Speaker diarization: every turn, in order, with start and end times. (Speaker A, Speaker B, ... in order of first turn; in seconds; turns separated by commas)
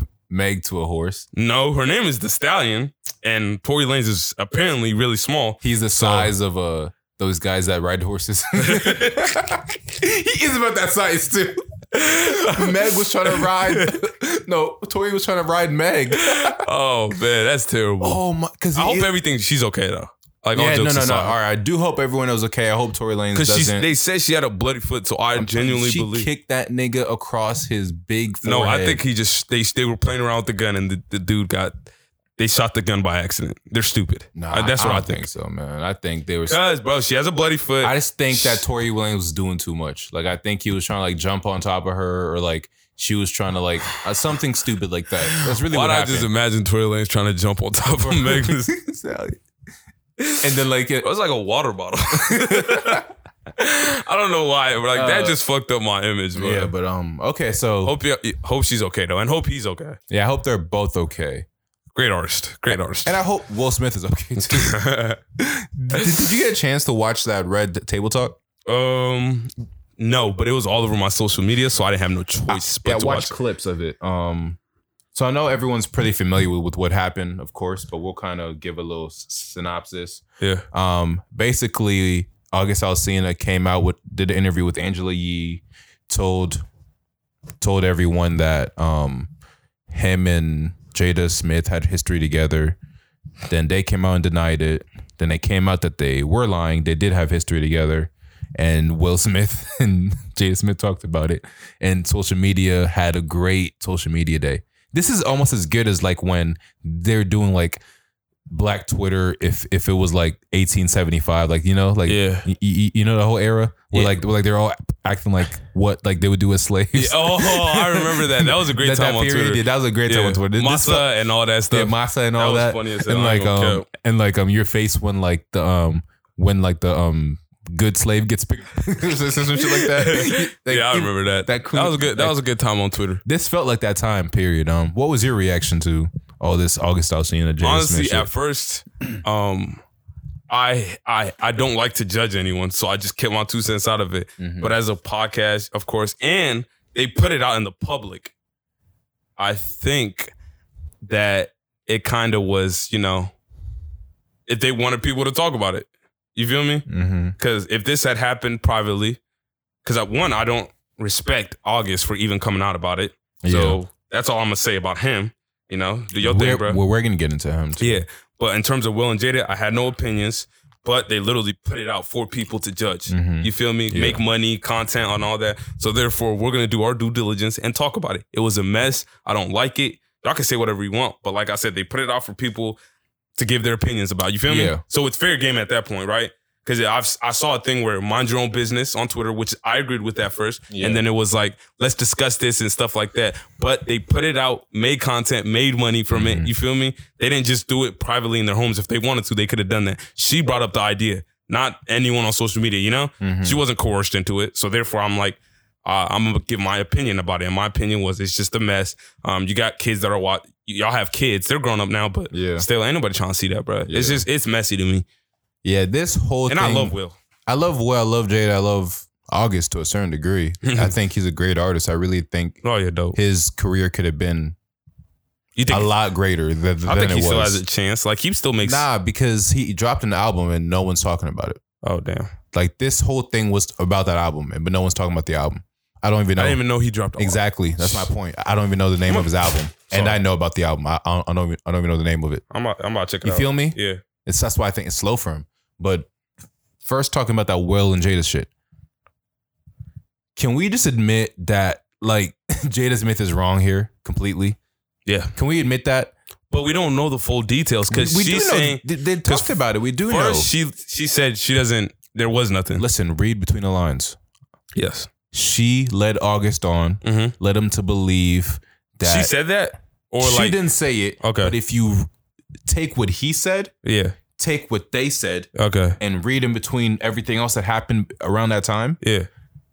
Speaker A: 0.3-1.2, Speaker B: 1.3-6.3, Speaker A: 5.6-16.6, Speaker B: 8.6-9.1, Speaker B: 11.9-14.0, Speaker B: 16.1-18.2, Speaker A: 18.0-19.1, Speaker B: 18.7-21.4, Speaker A: 20.5-23.9, Speaker B: 23.3-26.3, Speaker A: 25.4-29.0, Speaker B: 28.4-31.7, Speaker B: 32.4-35.3, Speaker A: 34.3-36.6, Speaker B: 36.5-38.6, Speaker A: 37.8-46.3, Speaker B: 45.2-48.7, Speaker A: 48.0-49.4, Speaker B: 50.2-50.5, Speaker A: 50.4-51.1, Speaker B: 51.0-53.0, Speaker A: 52.1-53.0, Speaker B: 53.5-56.7, Speaker A: 54.9-55.4, Speaker A: 56.4-57.9, Speaker B: 57.8-60.0, Speaker A: 60.1-61.5, Speaker B: 61.9-63.1, Speaker A: 63.0-64.8, Speaker B: 64.4-65.2, Speaker A: 65.4-68.4, Speaker B: 65.9-66.3, Speaker B: 68.7-73.3, Speaker A: 72.5-74.6, Speaker A: 75.1-86.6, Speaker A: 87.6-89.3, Speaker A: 89.9-92.8, Speaker A: 93.5-107.8, Speaker A: 108.5-121.1, Speaker B: 112.0-112.5, Speaker B: 116.9-123.9, Speaker A: 121.7-132.4, Speaker B: 129.6-133.2, Speaker A: 133.2-138.3, Speaker B: 137.6-139.8, Speaker B: 140.5-148.3, Speaker A: 144.4-144.7, Speaker B: 149.4-150.3, Speaker B: 151.0-153.3, Speaker B: 154.5-156.8, Speaker A: 156.9-157.3, Speaker B: 157.4-159.2, Speaker B: 159.8-166.8, Speaker A: 163.4-163.8, Speaker A: 166.2-168.0, Speaker B: 167.8-182.8, Speaker A: 173.1-174.2, Speaker B: 183.3-215.1, Speaker A: 184.5-184.8, Speaker A: 190.7-191.0, Speaker A: 196.1-196.5, Speaker A: 203.2-203.6, Speaker A: 212.3-212.7, Speaker A: 213.9-214.2, Speaker A: 215.6-216.9, Speaker B: 216.5-217.2, Speaker A: 217.5-222.6, Speaker B: 220.6-220.9, Speaker B: 222.6-223.2, Speaker A: 223.1-224.6, Speaker B: 225.6-225.9, Speaker A: 225.7-227.6, Speaker B: 226.8-228.8, Speaker A: 228.6-231.6, Speaker B: 231.8-232.3, Speaker A: 232.5-236.6, Speaker B: 236.4-238.1, Speaker A: 237.2-242.4, Speaker B: 239.1-240.2, Speaker B: 242.5-244.0, Speaker A: 243.2-246.1, Speaker A: 246.8-248.5, Speaker A: 250.3-254.6, Speaker B: 255.1-255.3, Speaker A: 255.3-256.1, Speaker B: 256.5-262.8, Speaker A: 257.9-260.5, Speaker A: 262.8-264.2, Speaker B: 264.7-265.1, Speaker A: 265.3-269.3, Speaker B: 267.0-267.3, Speaker B: 269.0-270.6, Speaker A: 270.2-272.1, Speaker B: 271.2-271.5, Speaker A: 272.6-273.7, Speaker B: 273.8-274.1, Speaker A: 274.4-279.0, Speaker B: 275.5-276.0, Speaker B: 279.0-279.3